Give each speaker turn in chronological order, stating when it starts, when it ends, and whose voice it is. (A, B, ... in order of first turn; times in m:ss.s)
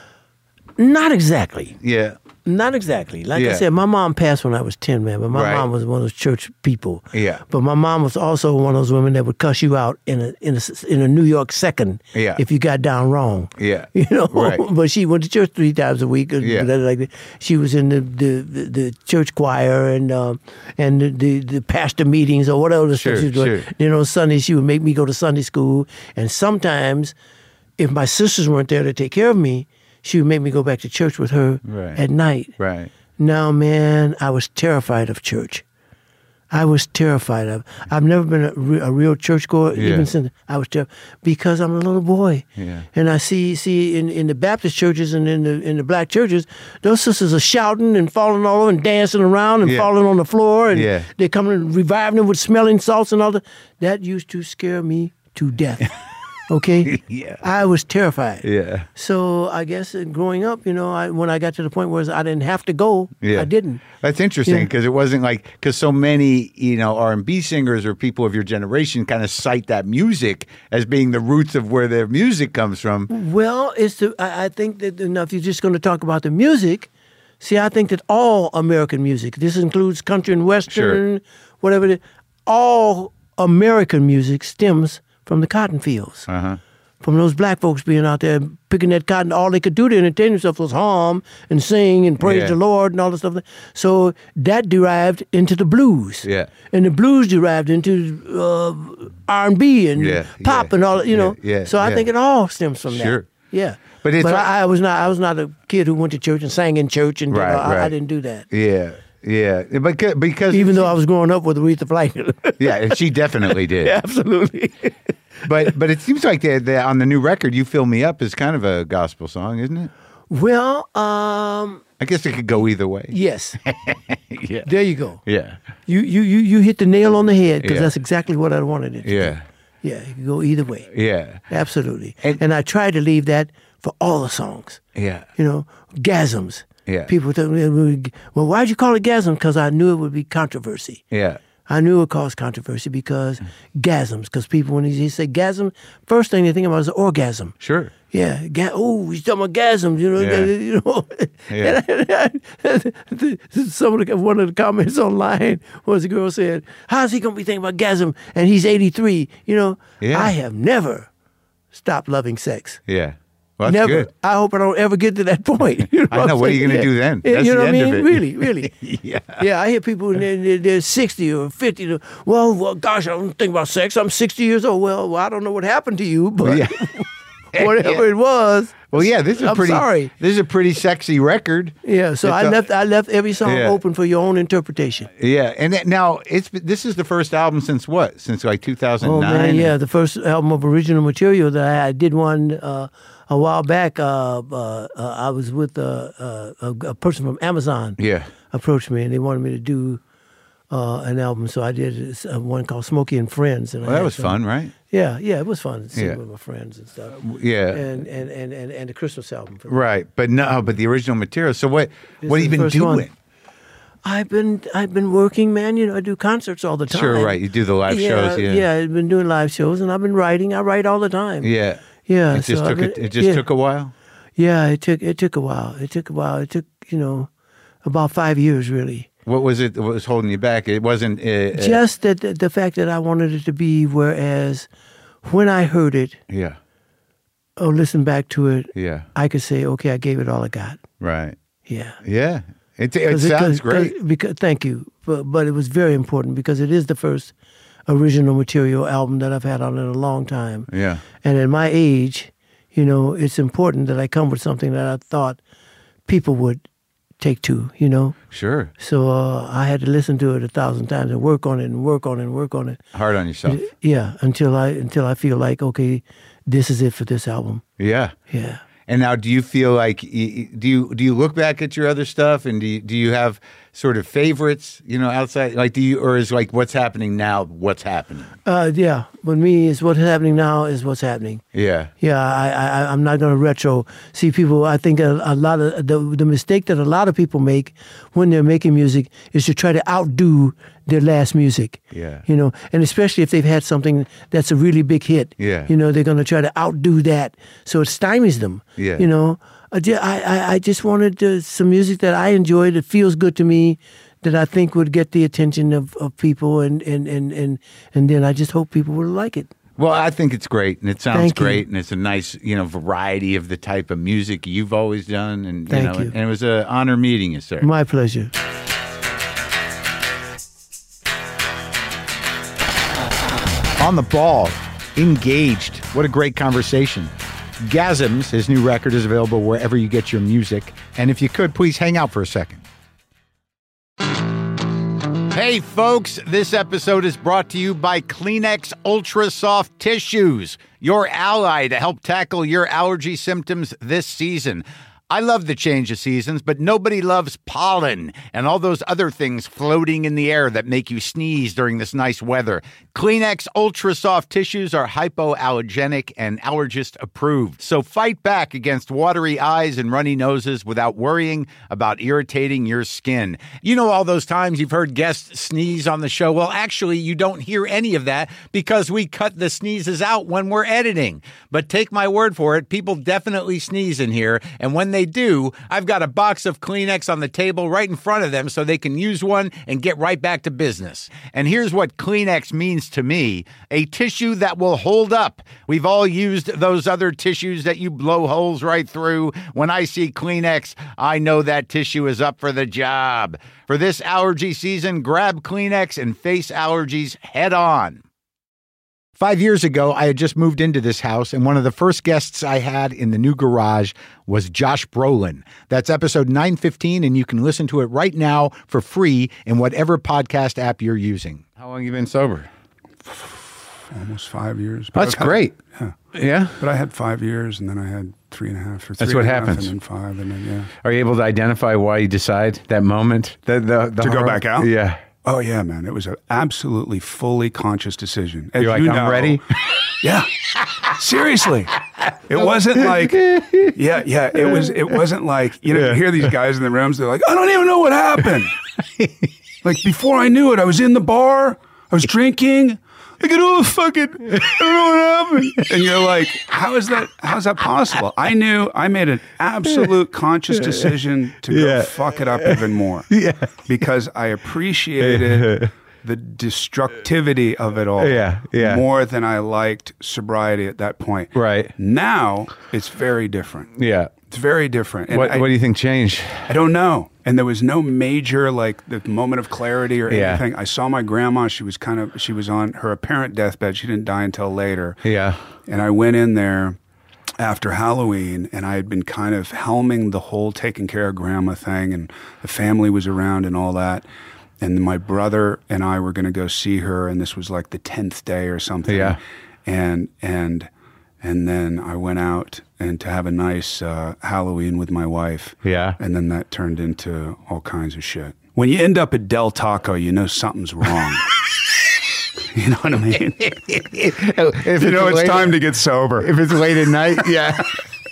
0:00.8-0:01.8 A
0:01.8-0:02.2 B
0:02.4-0:27.1 A
0:03.4-0:03.6 B
0:05.3-0:05.7 B
0:07.1-0:07.4 B
0:12.1-0:12.4 B
0:13.6-0:14.6 B
0:16.4-0:16.7 B
0:22.9-0:23.7 B
0:27.8-0:32.6 A
0:31.6-0:32.0 B
0:32.6-0:32.9 B
0:33.2-0:35.6 A
0:36.5-0:55.9 A
0:39.8-0:40.1 B
0:42.6-0:42.9 B
0:49.6-0:49.9 B
0:50.7-0:51.1 B
0:56.5-1:03.8 A
0:56.8-0:57.4 B
0:58.4-0:58.9 B
1:03.2-1:13.1 B
1:13.1-1:26.3 A
1:20.7-1:21.0 B
1:26.3-1:26.6 B
1:27.0-1:48.5 A
1:32.2-1:32.6 B
1:36.2-1:36.5 B
1:40.0-1:42.1 B
1:42.9-1:43.3 B
1:44.0-1:44.5 B
1:47.3-1:48.0 B
1:48.5-1:50.9 B
1:50.5-1:55.0 A
1:52.6-1:54.0 B
1:55.4-1:59.9 B
2:00.3-2:01.8 A
2:02.0-2:04.7 B
2:03.1-2:03.6 A
2:04.6-2:05.2 A
2:05.3-2:05.6 B
2:05.9-2:10.9 A
2:07.6-2:07.9 B
2:09.0-2:09.4 B
2:10.9-2:11.4 B
2:11.5-2:14.8 A
2:15.0-2:15.3 B
2:15.4-2:21.0 A
2:16.9-2:17.1 B
2:21.1-2:21.4 B
2:21.7-2:27.6 A
2:27.6-2:27.9 B
2:28.1-2:41.1 A
2:30.2-2:30.5 B
2:31.5-2:31.8 B
2:40.0-2:40.3 B
2:41.7-2:42.8 A
2:42.9-2:44.1 B
2:43.6-2:48.7 A
2:46.1-2:49.4 B
2:49.4-3:00.1 A
2:56.4-2:56.9 B
2:57.5-2:58.1 B
2:58.9-3:02.6 B
3:01.8-3:05.1 A
3:03.4-3:03.8 B
3:05.2-3:09.7 B
3:09.0-3:18.0 A
3:18.0-3:18.3 B
3:18.5-3:20.0 A
3:20.7-3:29.8 A
3:23.8-3:24.7 B
3:25.9-3:26.2 B
3:27.2-3:27.9 B
3:29.7-3:33.1 B
3:32.2-3:33.1 A
3:34.0-3:41.5 A
3:36.9-3:38.6 B
3:41.4-3:43.9 B
3:42.0-3:43.4 A
3:44.4-3:47.3 A
3:47.8-3:49.1 A
3:49.3-3:51.8 B
3:51.5-3:54.7 A
3:55.2-3:56.2 A
3:56.3-3:56.6 B
3:57.6-4:00.8 A
3:58.8-3:59.1 B
4:01.0-4:01.4 B
4:01.7-4:02.0 A
4:02.0-4:04.0 B
4:03.1-4:07.3 A
4:07.9-4:10.7 A
4:10.7-4:11.0 B
4:11.2-4:15.4 A
4:16.1-4:16.6 A
4:17.2-4:18.2 A
4:18.3-4:18.7 B
4:18.8-4:22.8 A
4:22.9-4:23.6 B
4:23.5-4:27.6 A
4:27.8-4:28.2 B
4:28.3-4:28.6 A
4:28.9-4:38.3 B
4:38.4-4:41.4 A
4:41.5-4:41.9 B
4:42.0-5:09.5 A
4:51.9-4:52.2 B
4:55.4-4:55.7 B
4:58.8-4:59.1 B
5:09.8-5:17.7 B
5:11.1-5:11.6 A
5:15.7-5:16.1 A
5:17.6-5:18.3 A
5:23.8-5:32.6 B
5:35.3-6:38.0 B
6:39.2-6:52.5 B
6:53.1-6:56.0 C
6:54.9-6:55.5 B
6:56.1-6:56.6 B
6:56.6-7:00.7 C
6:59.0-6:59.7 B
7:00.8-7:05.0 B
7:04.0-7:04.7 C
7:05.2-7:18.6 C
7:08.6-7:09.6 B
7:12.0-7:13.8 B
7:14.3-7:15.0 B
7:15.7-7:16.0 B
7:18.8-7:19.3 B
7:19.6-7:24.6 C
7:23.2-7:25.8 B
7:25.4-7:33.1 C
7:29.6-7:29.9 B
7:30.5-7:30.9 B
7:31.5-7:33.6 B
7:33.7-7:43.8 C
7:35.0-7:35.7 B
7:38.0-7:38.8 B
7:41.4-7:41.7 B
7:43.8-7:44.1 B
7:44.3-7:45.5 C
7:45.1-7:46.5 B
7:46.5-7:55.0 C
7:50.1-7:50.4 B
7:55.0-7:55.4 B
7:55.7-7:56.8 C
7:57.4-8:04.0 C
8:04.6-8:10.7 C
8:08.9-8:09.2 B
8:11.2-8:21.4 C
8:15.6-8:16.0 B
8:22.5-8:23.6 C
8:23.4-8:25.6 B
8:24.7-8:26.4 C
8:26.2-8:27.8 B
8:27.0-8:27.3 C